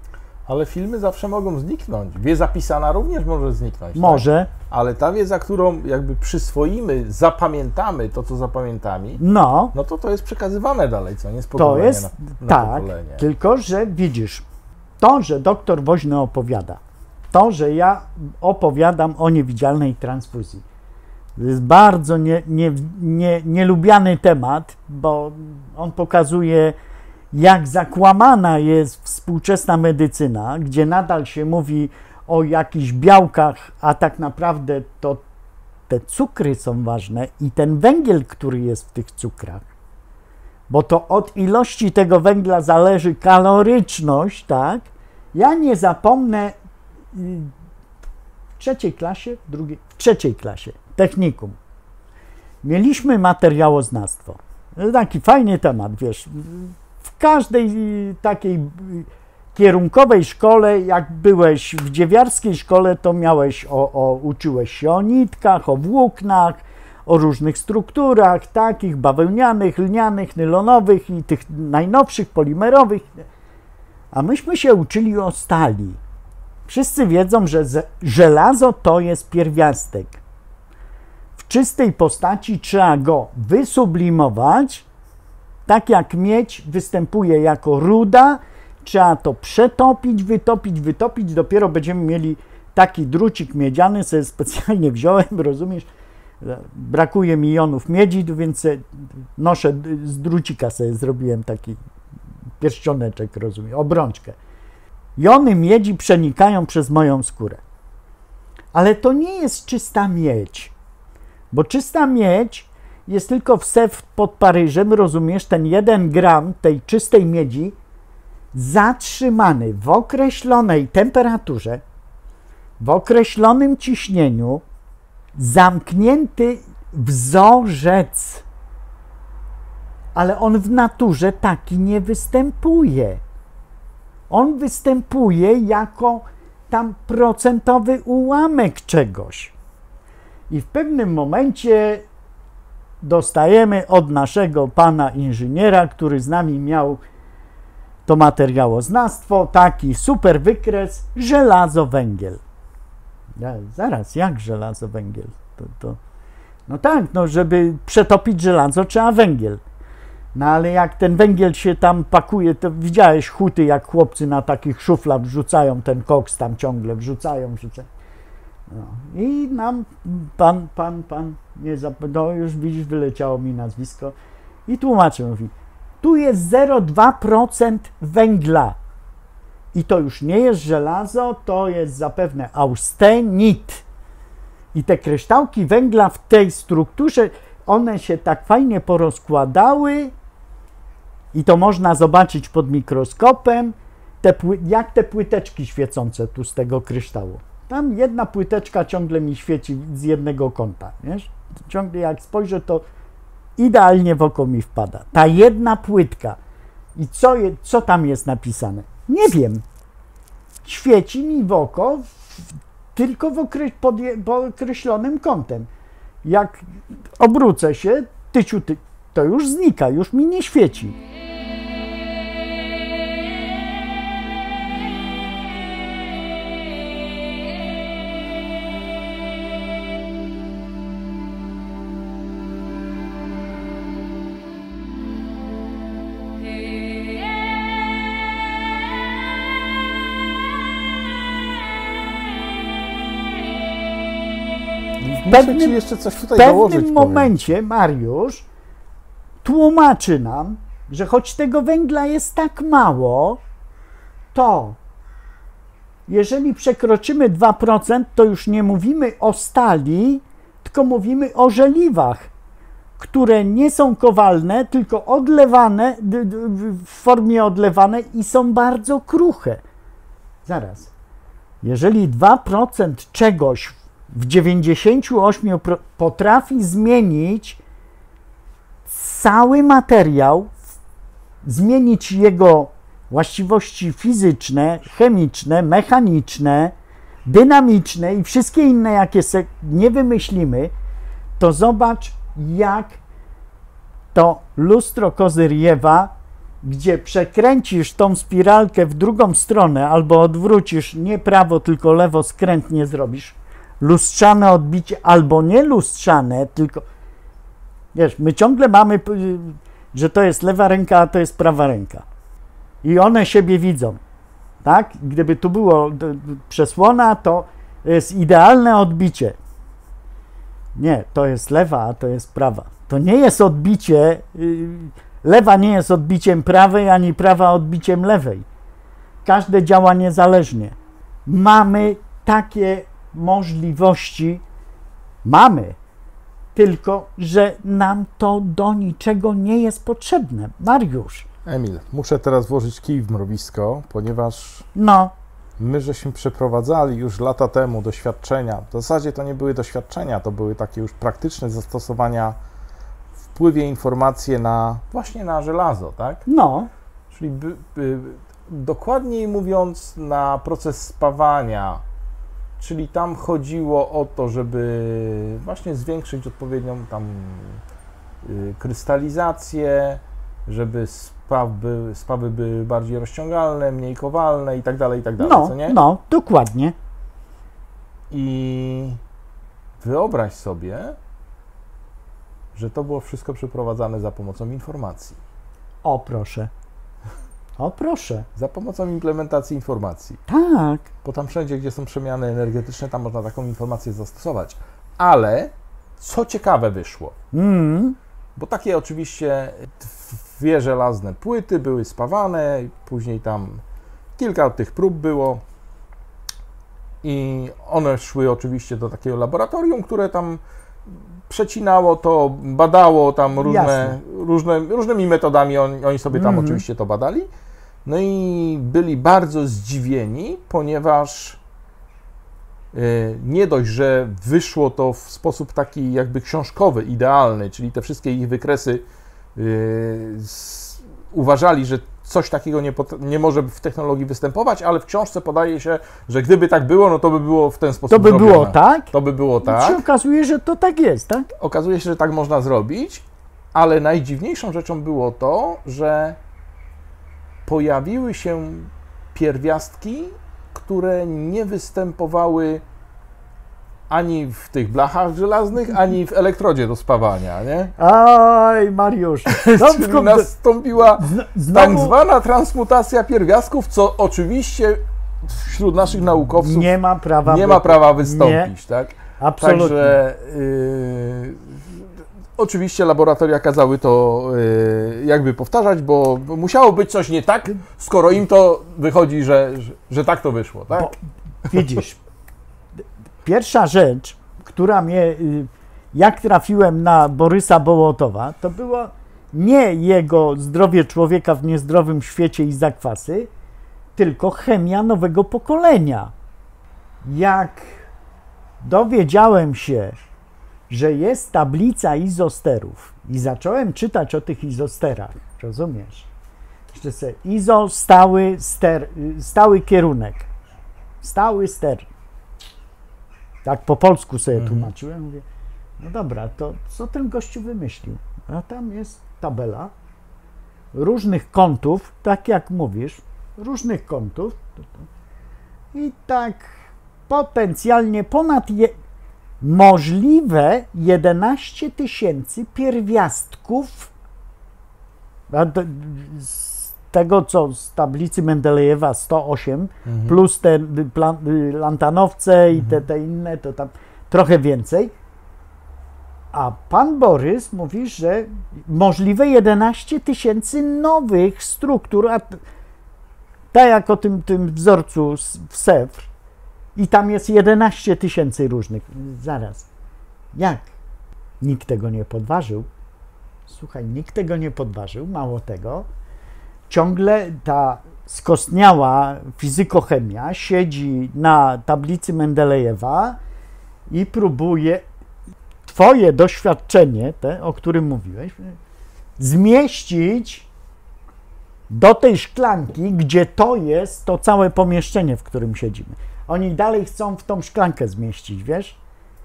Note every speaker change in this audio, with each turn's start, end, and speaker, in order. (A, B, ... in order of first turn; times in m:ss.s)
0:00.4-0:09.2 A
0:04.0-0:04.5 B
0:09.2-0:09.7 B
0:09.7-0:13.2 A
0:11.6-0:14.4 B
0:15.0-0:16.8 B
0:17.3-0:20.6 B
0:21.4-0:26.8 B
0:27.3-0:35.2 B
0:35.9-0:39.6 B
0:40.7-0:46.6 B
0:47.1-0:47.5 B
0:48.6-0:51.6 B
0:52.6-1:13.2 B
1:14.1-1:16.0 B
1:16.7-1:20.2 B
1:21.4-1:24.8 B
1:25.7-1:35.9 B
1:36.4-1:38.8 B
1:39.4-1:41.8 B
1:42.6-1:44.4 B
1:45.2-1:47.6 B
1:48.7-1:50.7 B
1:51.5-1:57.7 B
1:58.5-2:01.8 B
2:02.8-2:04.6 B
2:05.3-2:08.4 B
2:10.1-2:13.2 B
2:14.3-2:19.5 B
2:20.5-2:22.0 B
2:23.0-2:27.0 B
2:28.0-2:32.4 B
2:33.4-2:36.0 B
2:36.7-2:39.6 B
2:40.3-2:47.9 B
2:48.7-2:54.1 B
2:54.7-2:58.8 B
2:59.7-3:03.8 B
3:04.7-3:10.1 B
3:11.3-3:22.8 B
3:23.6-3:26.4 B
3:27.0-3:29.6 B
3:30.6-3:35.7 B
3:36.2-3:36.6 B
3:37.2-3:41.0 B
4:05.0-4:07.3 A
4:05.3-4:05.8 B
4:06.3-4:08.4 B
4:09.4-4:13.4 B
4:14.3-4:14.8 B
4:16.1-4:22.3 B
4:23.0-4:29.6 B
4:30.4-4:30.9 B
4:31.6-4:37.6 B
4:38.8-4:40.5 B
4:41.4-4:46.7 B
4:47.2-4:50.7 B
4:51.4-4:53.0 B
4:54.1-5:06.8 B
5:07.9-5:12.0 B
5:12.8-5:14.0 B
5:14.6-5:19.4 B
5:20.7-5:28.4 B
5:29.2-5:30.7 B
5:31.2-5:34.4 B
5:35.2-5:35.8 B
5:36.5-5:41.2 B
5:41.4-5:44.7 A
5:44.7-5:45.1 B
5:45.6-5:52.4 A
5:53.3-5:56.2 A
5:56.3-5:56.7 B
5:57.1-6:01.8 A
6:02.6-6:07.6 A
6:08.2-6:15.8 A
6:15.2-6:16.7 B
6:18.1-6:19.0 A
6:19.8-6:21.0 A
6:22.5-6:25.2 A
6:25.8-6:26.5 B
6:27.6-6:28.2 B
6:28.4-6:30.2 A
6:30.3-6:30.9 B
6:31.0-6:37.1 A
6:37.3-6:38.0 B
6:38.4-6:43.6 A
6:44.2-6:45.4 A
6:47.0-6:57.3 A
6:53.4-6:54.0 B
6:56.1-6:56.6 B
6:57.8-7:01.4 A
7:02.7-7:08.8 A
7:09.3-7:19.8 A
7:17.9-7:18.9 B
7:19.4-7:21.3 B
7:21.4-7:26.2 A
7:27.4-7:32.6 A
7:33.9-7:37.7 A
7:37.8-7:40.3 B
7:39.3-7:46.7 A
7:41.0-7:42.0 B
7:46.4-7:48.5 B
7:47.2-7:51.8 A
7:49.2-7:50.0 B
7:52.4-8:00.9 A
8:01.5-8:02.0 B
8:03.2-8:13.3 B
8:14.0-8:16.1 B
8:17.0-8:17.8 B
8:18.6-8:20.0 B
8:20.7-8:26.1 B
8:26.7-8:30.3 B
8:31.0-8:31.9 B
8:33.4-8:35.2 B
8:34.4-8:34.7 A
8:35.8-8:39.7 B
8:40.7-8:44.8 B
8:45.7-8:48.7 B
8:49.4-8:53.9 B
8:55.3-9:04.9 B
8:59.9-9:00.2 A
9:06.3-9:12.4 B
9:13.5-9:16.1 B
9:16.8-9:19.7 B
9:20.3-9:20.7 B
9:21.4-9:22.7 B
9:23.5-9:25.8 B
9:26.7-9:33.2 B
9:33.9-9:34.8 B
9:35.6-9:38.6 B
9:39.2-9:40.5 B
9:41.7-9:48.8 B